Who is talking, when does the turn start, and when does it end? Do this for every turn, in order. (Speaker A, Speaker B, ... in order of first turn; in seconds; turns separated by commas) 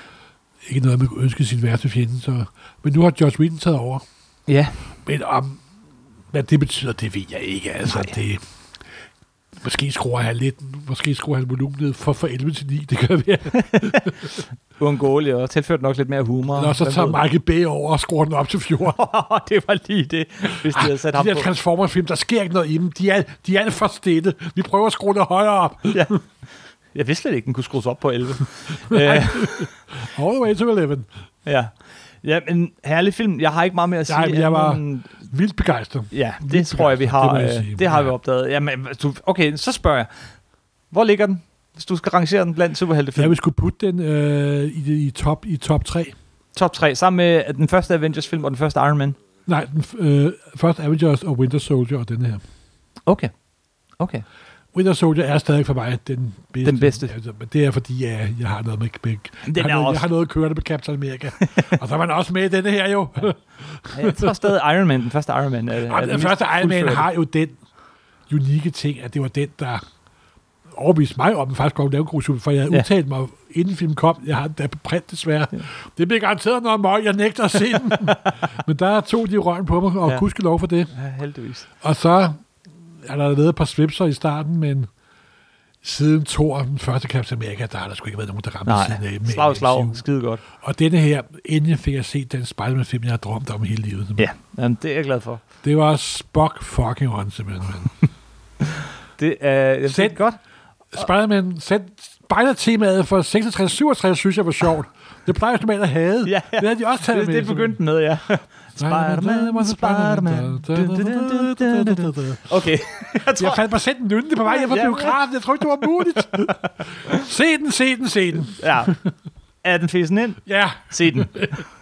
Speaker A: 0.7-4.0, Speaker B: 4.5-4.8, Speaker A: 5.1-5.6, Speaker A: 6.3-8.4, Speaker B: 7.9-8.2, Speaker A: 9.6-14.3, Speaker B: 13.5-17.2, Speaker A: 16.6-19.0, Speaker B: 18.9-21.5, Speaker A: 20.7-26.2, Speaker B: 25.9-26.2, Speaker B: 26.9-29.7, Speaker A: 28.9-31.1, Speaker B: 31.5-35.2, Speaker A: 34.1-38.1, Speaker B: 36.1-40.1, Speaker B: 40.9-43.4, Speaker A: 43.2-46.1, Speaker B: 46.5-49.2, Speaker A: 49.5-52.4, Speaker B: 54.0-54.2, Speaker A: 54.7-64.5, Speaker B: 56.6-57.1, Speaker B: 59.5-60.1, Speaker B: 61.4-61.8, Speaker B: 63.9-67.1, Speaker A: 65.9-67.6, Speaker A: 68.3-69.8, Speaker A: 70.7-80.9, Speaker B: 77.8-78.5, Speaker B: 80.9-81.7, Speaker A: 81.8-82.4, Speaker A: 83.0-84.9, Speaker A: 85.8-94.3, Speaker B: 88.7-90.4, Speaker B: 94.2-95.4, Speaker A: 95.6-98.0, Speaker B: 98.6-100.4, Speaker A: 99.9-100.2, Speaker A: 100.9-107.8, Speaker B: 106.2-113.6, Speaker A: 108.8-112.6, Speaker A: 113.4-119.1, Speaker B: 114.5-115.2, Speaker B: 116.1-117.3, Speaker B: 118.5-119.0, Speaker B: 119.6-121.6, Speaker A: 120.5-121.6